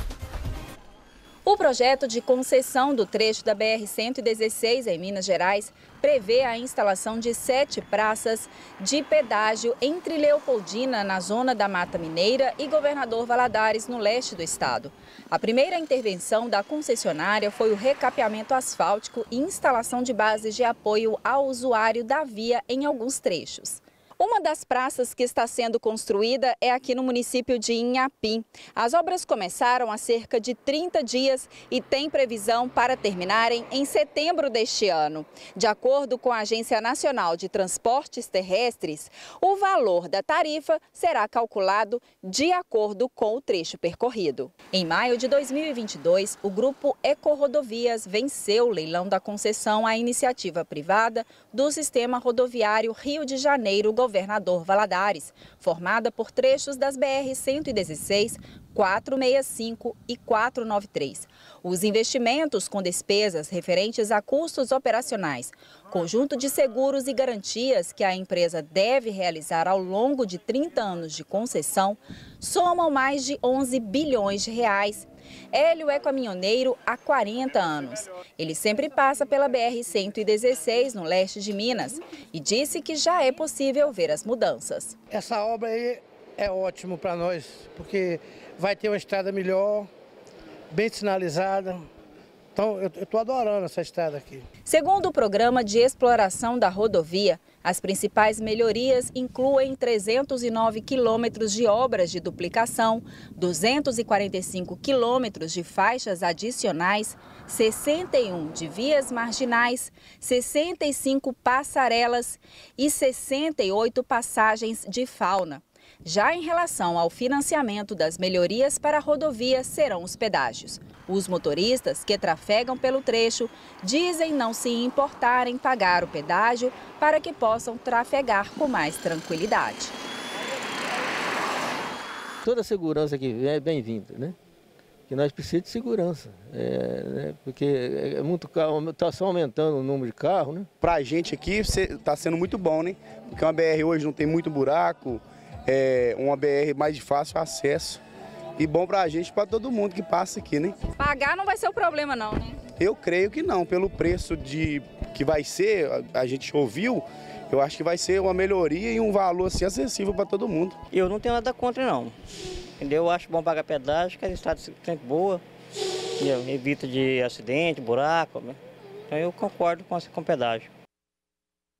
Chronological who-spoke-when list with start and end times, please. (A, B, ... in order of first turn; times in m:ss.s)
0:01.5-1:25.0 A
1:25.1-1:29.9 B
1:30.7-1:31.8 B
1:32.6-1:34.5 B
1:34.7-2:10.0 A
2:12.4-2:14.4 C
2:15.1-2:20.7 C
2:20.8-2:28.0 D
2:28.6-2:30.8 D
2:31.0-2:32.6 A
2:32.8-2:40.8 D
2:40.9-2:42.2 E
2:42.8-2:45.4 E
2:46.2-2:50.7 E